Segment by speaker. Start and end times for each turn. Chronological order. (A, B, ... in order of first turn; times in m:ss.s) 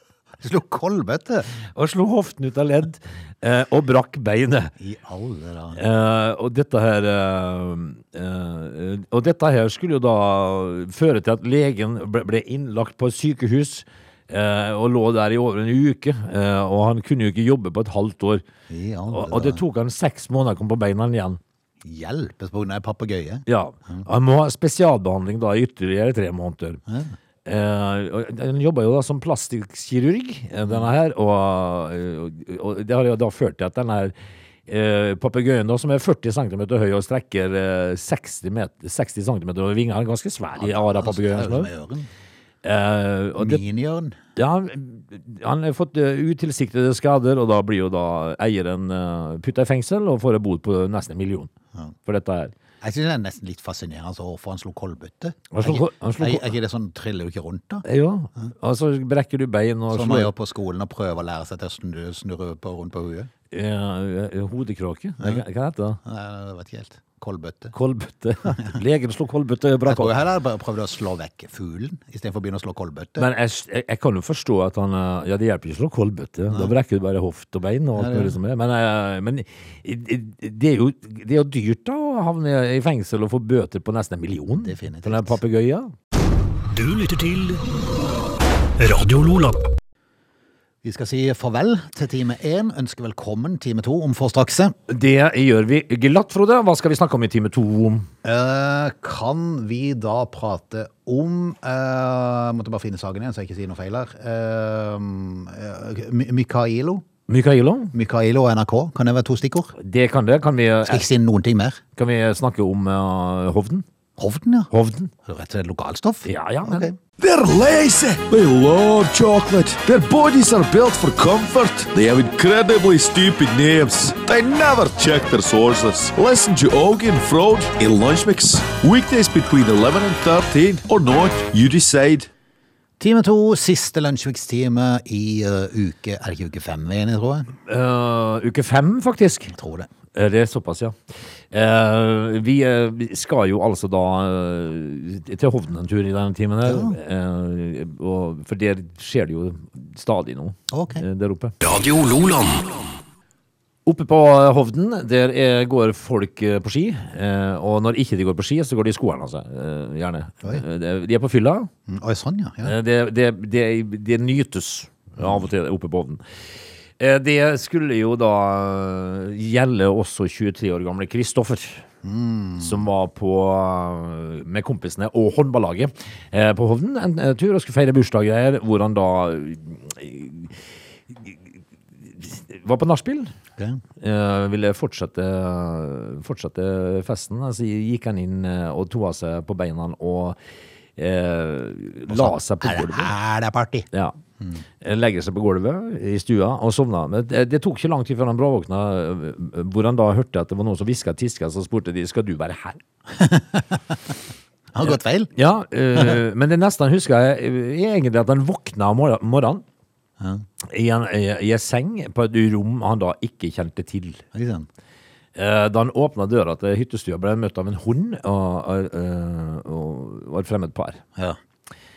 0:00.4-0:01.5 A
0:01.7-0:04.7 B
0:04.8-0:05.8 A
0:05.7-0:18.4 B
0:18.7-0:19.6 A
0:19.1-0:21.4 B
0:21.8-0:24.0 A
0:23.5-0:26.8 B
0:26.9-0:27.1 A
0:27.4-0:34.1 B
0:34.7-0:41.7 B
0:40.6-0:42.1 A
0:42.6-0:43.6 B
0:43.4-0:44.2 A
0:44.4-0:51.5 B
0:52.0-0:52.5 B
0:52.8-0:57.8 A
0:55.5-0:56.5 B
0:57.8-1:00.3 B
0:59.9-1:03.3 A
1:03.5-1:06.0 B
1:06.0-1:07.7 A
1:07.7-1:10.1 B
1:09.8-1:13.3 A
1:13.2-1:25.9 B
1:18.0-1:18.3 A
1:24.6-1:25.3 A
1:26.7-1:27.6 C
1:28.8-1:29.6 C
1:30.8-1:34.8 A
1:34.9-1:38.1 B
1:38.2-1:47.0 A
1:47.3-1:47.9 B
1:47.9-1:49.7 A
1:49.8-1:51.1 B
1:50.8-1:51.8 A
1:52.0-1:53.8 B
1:54.2-1:54.7 A
1:54.7-1:55.1 B
1:55.2-1:57.0 A
1:56.2-1:56.9 B
1:57.2-2:12.3 D
2:13.0-2:17.5 A
2:17.6-2:19.5 B
2:19.5-2:19.9 A
2:20.1-2:21.0 B
2:21.5-2:31.5 B
2:26.6-2:27.0 A
2:30.7-2:31.0 A
2:31.6-2:33.0 C
2:33.8-2:41.7 B
2:41.9-2:42.7 A
2:42.6-2:46.2 B
2:45.2-2:45.4 A
2:47.0-2:51.8 B
2:52.0-2:52.8 A
2:52.6-3:01.4 B
3:02.0-3:03.3 B
3:04.0-3:10.4 B
3:11.0-3:13.1 B
3:12.1-3:13.9 A
3:14.8-3:22.8 B
3:23.1-3:23.8 A
3:24.7-3:25.3 A
3:24.8-3:29.6 B
3:30.2-3:30.4 A
3:30.6-3:34.2 B
3:34.3-3:34.7 A
3:35.4-3:41.0 B